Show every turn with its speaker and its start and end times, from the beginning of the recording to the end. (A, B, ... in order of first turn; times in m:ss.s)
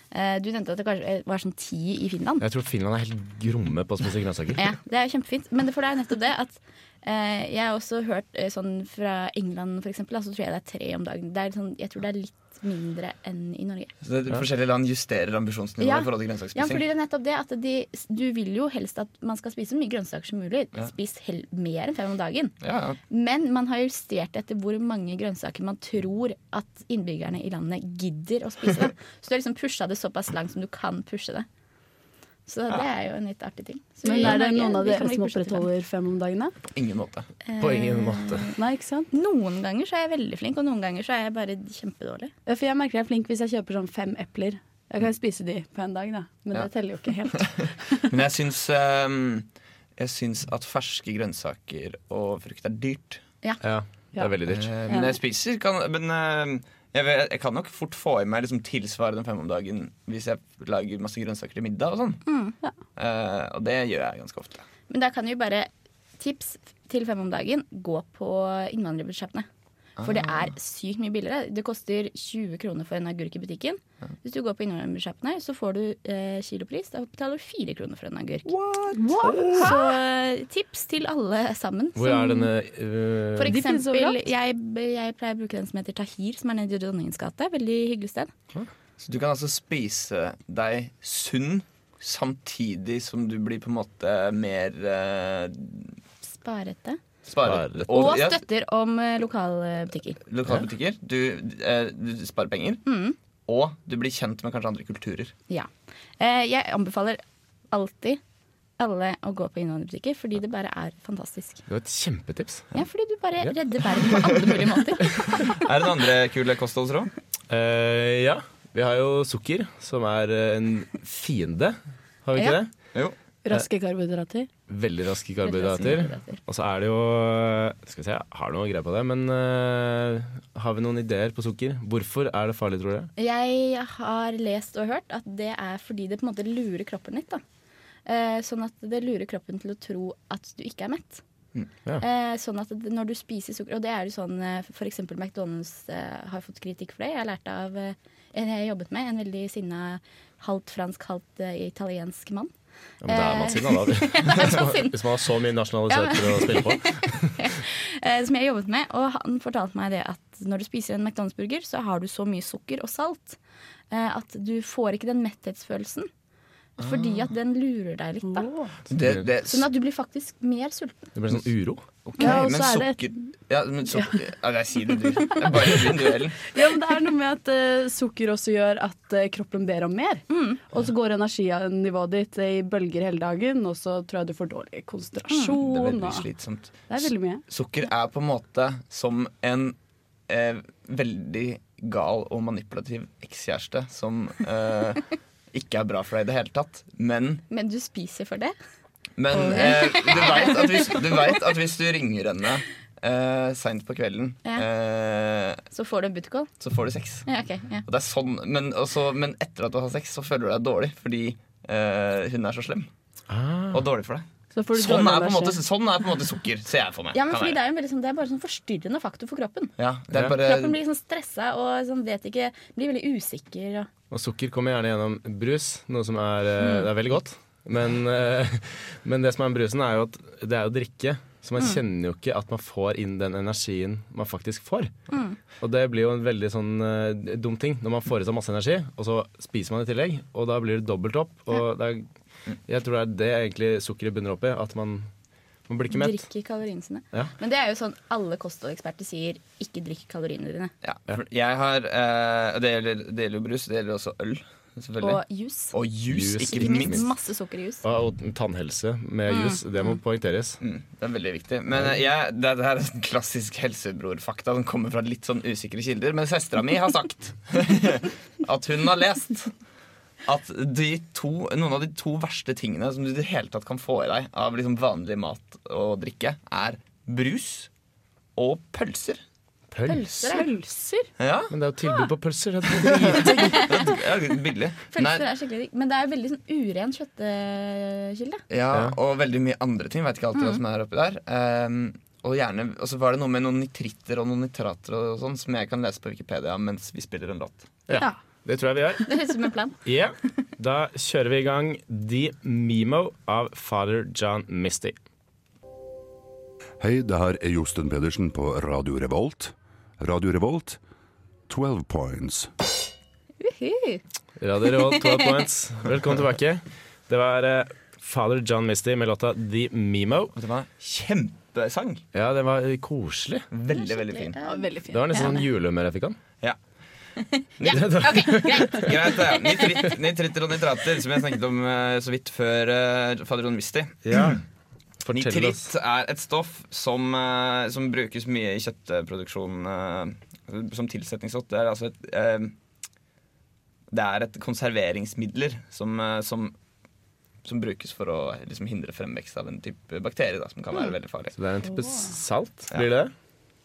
0:00.1-0:02.4 A
0:02.4-0:04.7 B
0:04.6-0:13.9 A
0:14.0-0:16.8 C
0:15.8-0:22.6 A
0:22.6-0:23.0 C
0:23.1-0:31.5 A
0:32.5-0:35.7 A
0:34.0-0:36.5 D
0:36.7-0:37.3 C
0:37.4-0:42.3 A
0:37.6-0:38.5 B
0:38.6-0:39.1 D
0:42.5-0:48.1 D
0:48.1-0:53.2 C
0:53.6-0:54.7 B
0:54.5-1:02.3 C
0:54.9-0:55.2 D
1:02.3-1:02.6 A
1:03.0-1:04.6 C
1:04.9-1:09.5 A
1:10.0-1:10.5 C
1:10.0-1:18.5 A
1:18.5-1:19.8 C
1:18.9-1:19.7 D
1:19.5-1:22.5 A
1:22.0-1:23.5 B
1:23.4-1:28.3 A
1:23.4-1:24.3 D
1:29.0-1:36.0 C
1:36.2-1:37.0 A
1:37.3-1:38.4 C
1:37.4-1:37.9 B
1:37.9-1:40.2 A
1:40.3-1:42.8 C
1:42.9-1:43.2 A
1:43.5-1:45.3 C
1:45.5-1:48.2 A
1:48.8-1:51.6 A
1:51.7-1:52.8 B
1:52.7-1:55.4 A
1:55.4-1:57.1 C
1:57.5-2:02.7 B
2:03.4-2:04.5 D
2:04.7-2:13.1 B
2:05.4-2:06.4 A
2:13.2-2:17.4 A
2:18.1-2:21.2 A
2:22.0-2:32.5 A
2:33.0-2:37.5 B
2:33.1-2:35.0 A
2:35.9-2:43.4 A
2:43.9-2:46.1 A
2:46.8-2:47.3 C
2:46.8-2:48.5 A
2:48.2-2:48.8 D
2:48.9-2:49.7 C
2:49.4-2:51.1 A
2:51.2-2:51.8 B
2:52.0-2:56.4 C
2:52.2-2:53.0 D
2:56.5-3:06.3 D
3:00.3-3:00.6 A
3:05.3-3:05.6 A
3:05.5-3:09.8 C
3:06.9-3:07.4 D
3:10.3-3:17.4 C
3:17.5-3:18.6 A
3:19.2-3:25.6 C
3:19.3-3:21.4 A
3:19.4-3:19.7 D
3:25.7-3:26.5 A
3:26.6-3:27.3 C
3:27.3-3:27.8 A
3:27.8-3:32.9 C
3:33.3-3:33.9 B
3:33.7-3:37.6 C
3:34.5-3:35.6 D
3:37.1-3:43.9 A
3:39.8-3:40.8 C
3:44.1-3:55.0 B
3:46.6-3:46.9 A
3:55.1-3:55.4 A
3:55.5-4:02.1 B
4:02.6-4:05.1 B
4:05.7-4:06.2 B
4:05.9-4:10.7 A
4:10.8-4:17.1 C
4:15.0-4:15.8 A
4:16.1-4:17.1 B
4:16.4-4:17.8 A
4:17.8-4:20.6 B
4:19.3-4:19.9 A
4:20.6-4:29.6 C
4:21.7-4:22.0 B
4:30.2-4:37.7 C
4:38.4-4:39.2 C
4:39.7-4:40.4 B
4:39.9-4:40.5 A
4:40.3-4:41.1 D
4:41.2-4:41.5 C
4:41.5-4:43.7 B
4:42.8-4:45.3 C
4:44.9-4:48.4 A
4:48.5-4:57.7 C
4:57.9-4:59.1 B
4:59.1-4:59.8 A
4:59.8-5:05.0 B
5:06.8-5:10.8 E
5:11.5-5:12.5 E
5:13.4-5:14.0 A
5:14.4-5:20.3 B
5:14.9-5:15.3 A
5:20.3-5:22.0 C
5:22.1-5:23.5 B
5:23.5-5:24.4 C
5:23.7-5:25.2 A
5:24.4-5:25.4 D
5:24.9-5:26.2 B
5:27.6-5:29.9 A
5:27.7-5:28.8 B
5:28.7-5:34.4 C
5:34.0-5:34.4 B
5:35.0-5:35.7 B
5:35.1-5:42.5 C
5:43.9-5:46.6 C
5:47.4-5:51.4 C
5:51.4-5:53.1 B
5:51.7-5:52.1 D